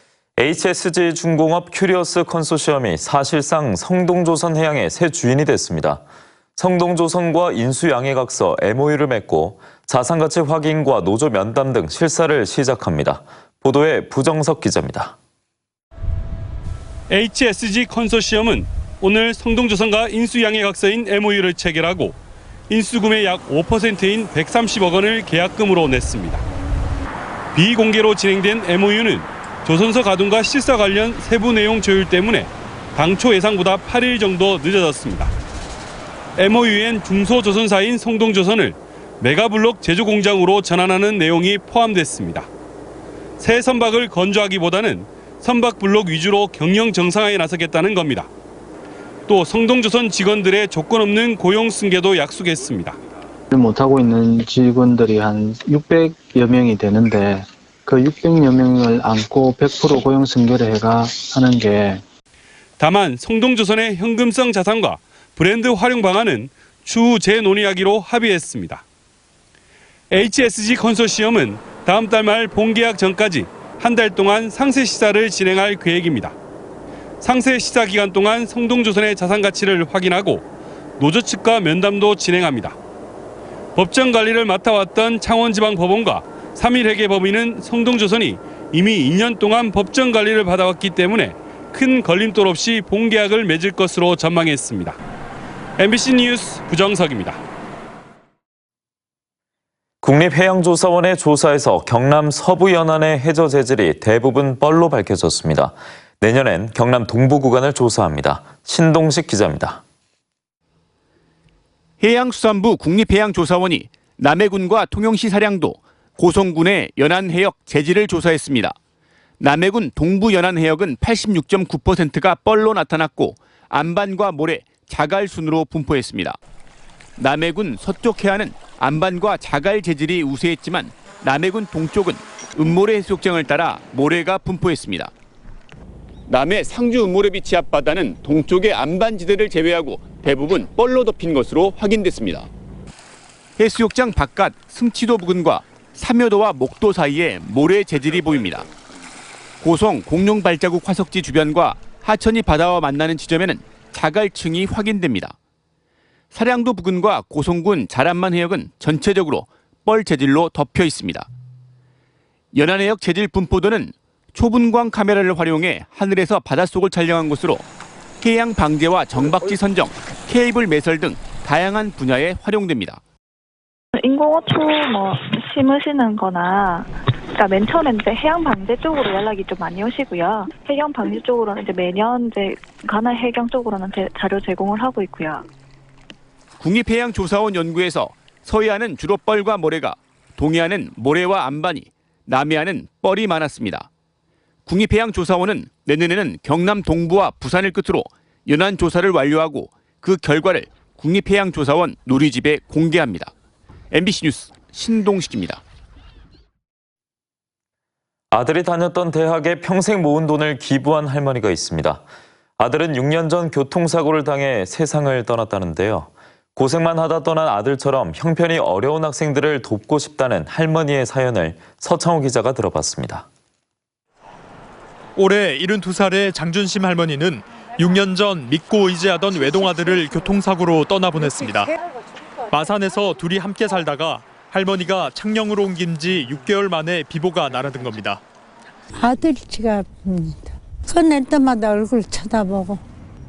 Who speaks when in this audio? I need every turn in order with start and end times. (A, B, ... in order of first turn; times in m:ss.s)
0:00.4-0:06.0 A
0:06.6-0:15.2 A
0:17.1-0:22.2 B
0:22.7-0:26.4 B
0:27.5-0:35.3 B
0:36.4-0:42.5 B
0:43.4-0:48.3 B
0:49.3-0:53.0 B
0:53.5-1:02.0 C
1:02.8-1:08.8 B
1:10.1-1:16.3 B
1:17.2-1:20.4 B
1:21.0-1:22.8 B
1:23.8-1:35.0 B
1:35.8-1:37.4 B
1:40.0-1:49.8 A
1:52.0-1:58.7 D
1:59.4-2:06.4 D
2:07.2-2:15.1 D
2:16.3-2:22.5 D
2:23.6-2:28.6 D
2:29.6-2:35.3 D
2:36.3-2:41.3 D
2:42.5-2:47.6 D
2:48.2-2:53.0 D
2:53.9-3:05.5 E
3:06.6-3:13.9 D
3:14.7-3:23.3 D
3:23.9-3:25.6 D
3:28.3-3:32.0 A
3:32.6-3:43.3 A
3:45.2-3:51.7 F
3:52.5-3:58.2 F
3:59.0-4:02.8 G